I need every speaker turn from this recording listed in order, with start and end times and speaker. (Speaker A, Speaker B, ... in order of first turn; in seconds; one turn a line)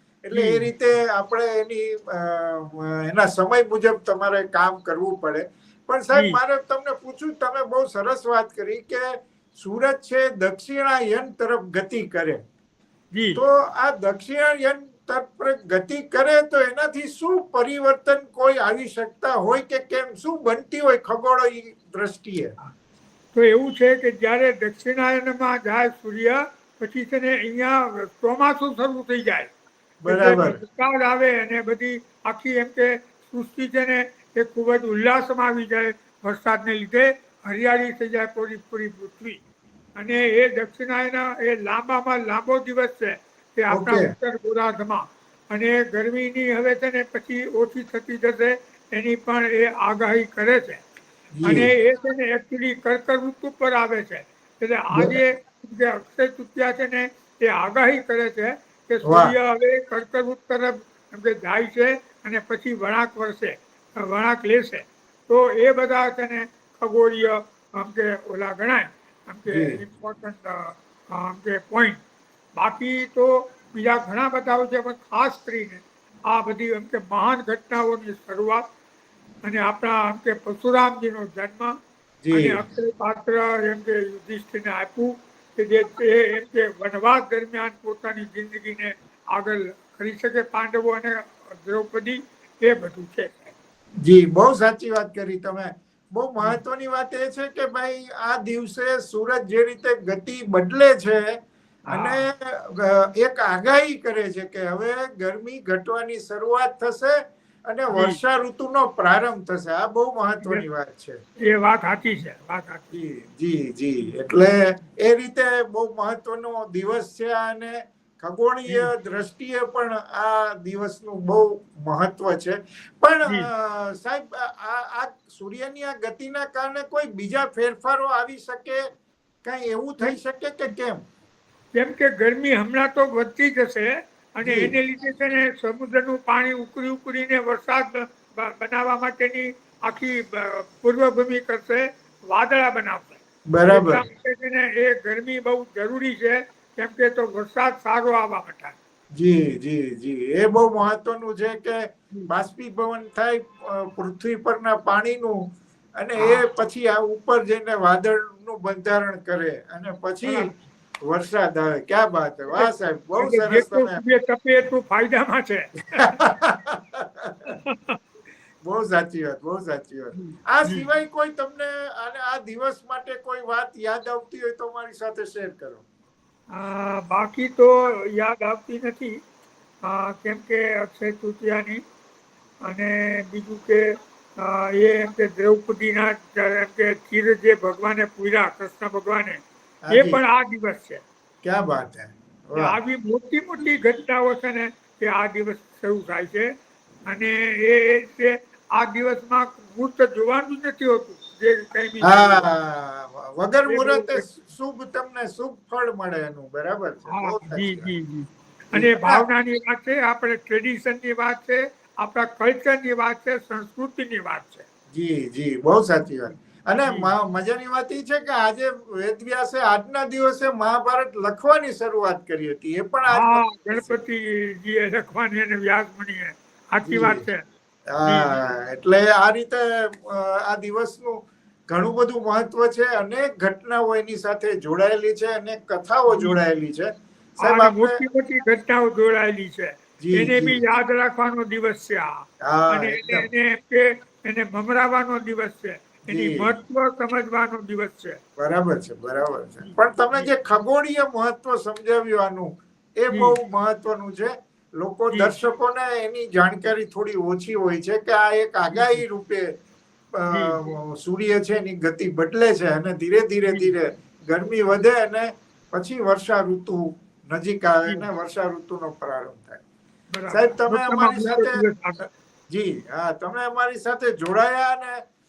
Speaker A: 0.2-12.4
Speaker B: 0.3-0.7
Speaker B: 6.1-6.4
Speaker B: 13.1-13.4
Speaker A: 13.3-22.5
Speaker B: 23.3-29.5
Speaker A: 30.0-30.6
Speaker B: 30.1-39.4
Speaker B: 40.0-50.8
Speaker A: 43.7-44.1
Speaker A: 51.4-51.7
Speaker B: 51.4-72.0
Speaker A: 54.9-55.2
Speaker A: 59.0-59.3
Speaker A: 69.5-69.8
Speaker B: 72.5-78.6
Speaker B: 79.4-81.7
Speaker A: 82.2-82.6
Speaker B: 82.3-93.5
Speaker A: 94.0-101.4
Speaker B: 101.9-102.2
Speaker A: 101.9-111.2
Speaker B: 107.9-108.2
Speaker B: 111.4-112.9
Speaker A: 112.9-128.8
Speaker A: 129.4-131.0
Speaker B: 131.7-148.8
Speaker A: 134.4-134.7
Speaker A: 143.5-144.0
Speaker A: 149.2-160.5
Speaker B: 156.2-156.4
Speaker B: 160.2-160.6
Speaker A: 161.0-164.0
Speaker B: 162.5-166.2
Speaker A: 166.0-167.5
Speaker B: 167.5-168.0
Speaker A: 168.6-175.8
Speaker B: 170.1-170.8
Speaker B: 176.5-179.2
Speaker B: 179.8-181.8
Speaker B: 182.6-183.8
Speaker B: 184.4-189.4
Speaker A: 189.9-190.2
Speaker B: 189.9-191.0
Speaker A: 191.4-192.8
Speaker B: 192.5-196.5
Speaker B: 197.1-202.5
Speaker A: 202.0-207.9
Speaker B: 203.7-204.2
Speaker B: 207.1-214.6
Speaker A: 208.7-209.2
Speaker A: 214.9-224.0
Speaker B: 223.1-227.4
Speaker A: 226.8-227.2
Speaker A: 227.9-238.0
Speaker B: 228.0-228.4
Speaker B: 236.1-236.4
Speaker B: 237.4-248.2
Speaker A: 240.0-240.6
Speaker A: 242.4-243.2
Speaker A: 246.1-246.5
Speaker A: 248.4-259.5
Speaker B: 249.6-250.3
Speaker B: 258.7-259.0
Speaker A: 260.2-269.6
Speaker B: 260.3-260.6
Speaker B: 270.1-272.0
Speaker A: 270.3-275.0